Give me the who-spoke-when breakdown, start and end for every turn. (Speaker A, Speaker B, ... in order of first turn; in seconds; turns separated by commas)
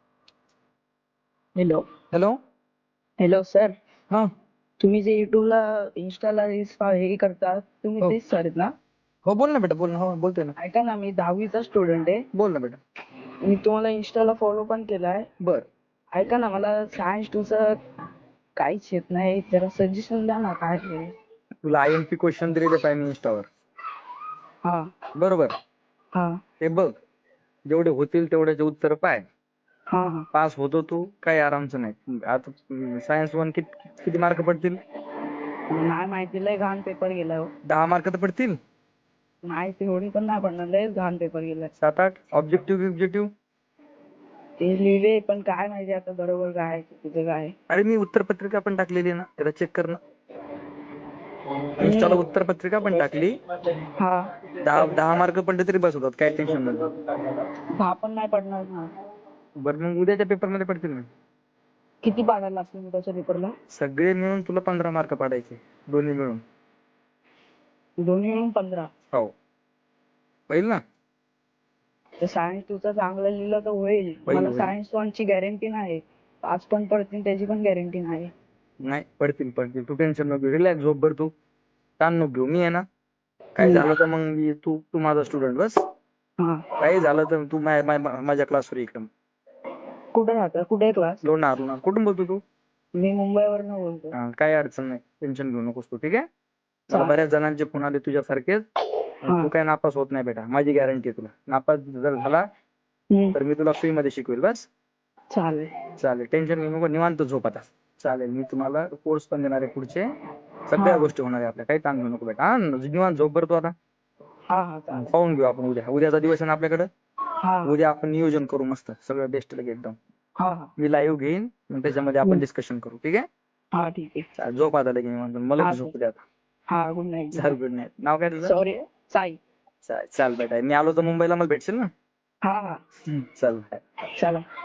Speaker A: 1.6-1.8, Speaker B: 2.1-2.4, Speaker A: 3.2-3.8, Speaker A: 4.8-8.7, Speaker B: 9.2-10.5, Speaker A: 10.6-12.2, Speaker B: 12.3-12.8, Speaker A: 13.4-15.3, Speaker B: 15.4-15.7, Speaker A: 16.1-17.8, Speaker A: 18.6-21.1, Speaker B: 21.6-23.5, Speaker A: 24.6-24.9, Speaker B: 25.1-25.5, Speaker A: 26.1-26.4, Speaker B: 26.6-26.9, Speaker B: 27.7-29.2, Speaker A: 29.9-30.3, Speaker B: 30.3-34.8, Speaker A: 35.7-37.5, Speaker B: 37.6-38.6, Speaker A: 39.5-41.7, Speaker B: 41.8-43.3, Speaker A: 44.6-47.5, Speaker B: 47.7-50.0, Speaker B: 51.8-53.4, Speaker A: 51.8-52.2, Speaker A: 54.0-54.3, Speaker B: 54.6-56.9, Speaker A: 57.8-58.9, Speaker B: 59.6-61.1, Speaker A: 62.0-63.5, Speaker B: 63.7-66.4, Speaker A: 68.0-68.9, Speaker B: 70.5-70.8, Speaker A: 72.2-78.3, Speaker B: 74.3-74.7, Speaker B: 78.8-81.3, Speaker B: 82.0-82.8, Speaker B: 83.5-85.8, Speaker A: 83.6-83.9, Speaker A: 86.4-86.6, Speaker B: 86.8-89.1, Speaker A: 90.1-91.2, Speaker B: 91.2-92.4, Speaker A: 92.9-94.1, Speaker B: 94.1-96.2, Speaker B: 96.9-98.6, Speaker B: 99.2-102.5, Speaker A: 99.2-99.5, Speaker A: 103.1-103.3, Speaker B: 103.3-104.7, Speaker A: 105.3-105.7, Speaker B: 106.0-110.1, Speaker B: 110.7-113.7, Speaker A: 110.8-111.1, Speaker A: 114.5-115.1, Speaker B: 114.9-116.9, Speaker A: 117.4-117.7, Speaker B: 117.6-120.0, Speaker A: 120.4-120.7, Speaker B: 120.8-123.2, Speaker A: 123.7-124.3, Speaker B: 124.4-126.2, Speaker A: 125.6-125.9, Speaker A: 126.7-127.5, Speaker B: 127.3-128.5, Speaker A: 128.4-129.4, Speaker B: 129.8-131.9, Speaker A: 132.4-132.8, Speaker B: 133.1-133.8, Speaker A: 134.1-134.4